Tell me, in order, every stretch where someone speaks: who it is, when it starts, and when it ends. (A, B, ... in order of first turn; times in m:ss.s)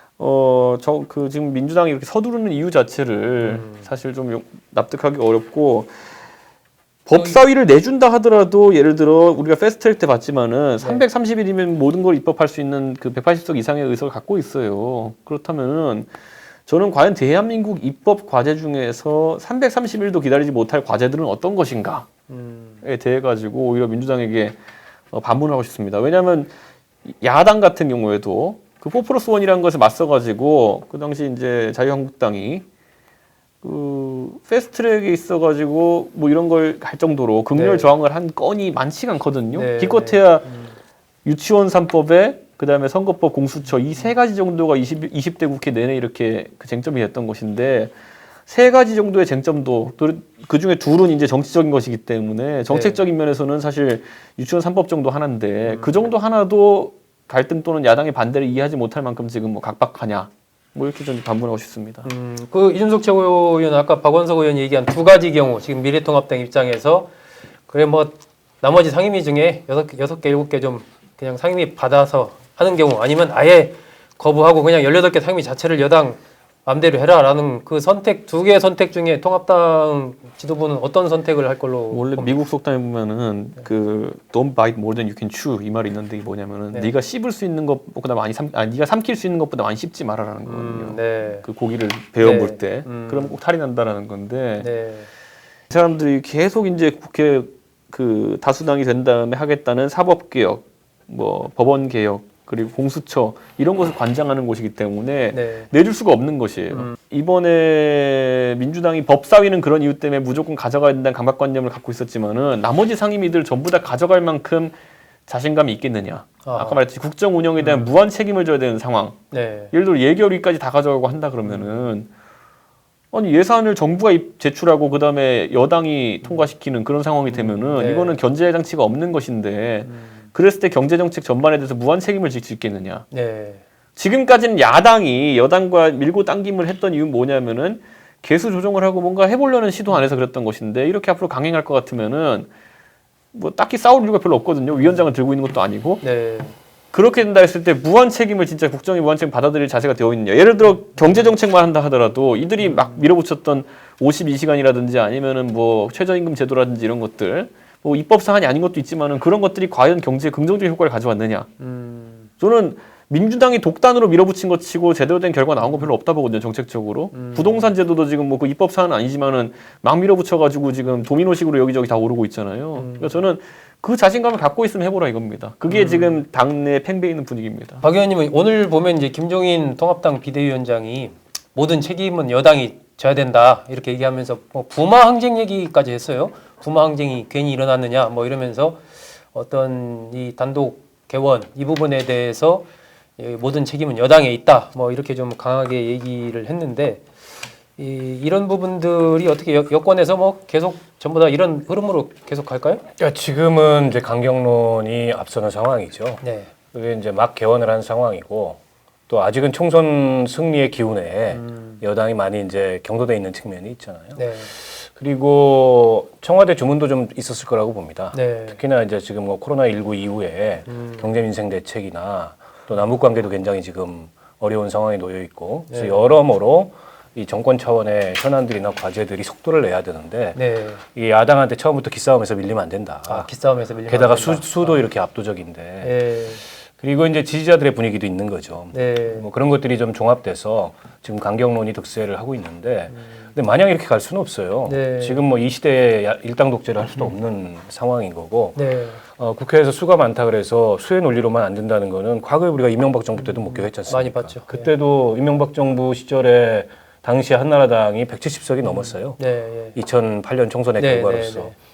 0:00.2-0:05.9 A
0:03.4-0:03.9 B
0:07.1-0:16.1 A
0:07.1-0:07.4 B
0:16.7-0:22.1 A
0:22.3-0:22.8 B
0:22.8-0:24.6 A
0:25.1-0:26.5 A
0:27.2-0:32.6 A
0:33.6-0:40.5 A
0:37.6-0:37.9 B
0:39.5-0:40.7 B
0:41.2-0:47.9 A
0:48.5-1:02.1 A
0:52.7-0:53.0 B
0:55.7-0:56.1 B
1:02.0-1:07.1 B
1:07.7-1:22.4 B
1:21.9-1:34.7 A
1:30.4-1:31.5 B
1:32.2-1:33.4 B
1:34.6-1:35.1 B
1:35.7-1:54.8 A
1:45.3-1:45.7 B
1:55.3-1:59.2 A
1:56.4-1:56.8 B
1:57.6-1:57.9 B
1:59.3-1:59.7 B
1:59.7-2:02.1 A
2:01.5-2:01.9 B
2:03.1-2:13.1 A
2:07.3-2:08.2 B
2:09.8-2:10.3 B
2:13.1-2:13.6 B
2:14.0-2:22.5 A
2:23.3-2:26.0 A
2:24.8-2:25.1 B
2:26.0-2:26.6 B
2:26.9-2:41.5 A
2:30.9-2:31.3 B
2:32.6-2:33.0 B
2:41.6-2:42.3 B
2:42.4-2:57.8 A
2:47.1-2:47.7 B
2:52.8-2:53.2 B
2:55.7-2:56.2 B
2:57.8-3:08.8 B
3:09.3-3:12.7 B
3:13.2-3:17.0 B
3:17.8-3:22.8 B
3:23.0-3:26.2 C
3:26.2-3:26.5 B
3:26.7-3:53.3 C
3:31.3-3:31.8 B
3:34.2-3:34.5 B
3:38.1-3:38.6 B
3:40.7-3:41.1 B
3:45.7-3:46.1 B
3:50.4-3:50.8 B
3:53.1-3:54.8 B
3:53.9-3:56.0 C
3:55.8-3:56.4 B
3:56.7-4:08.6 C
3:58.7-3:59.3 B
4:04.7-4:05.2 B
4:08.6-4:09.0 B
4:09.2-4:19.2 C
4:13.2-4:14.7 B
4:18.6-4:19.8 B
4:19.8-4:21.5 C
4:20.8-4:21.6 B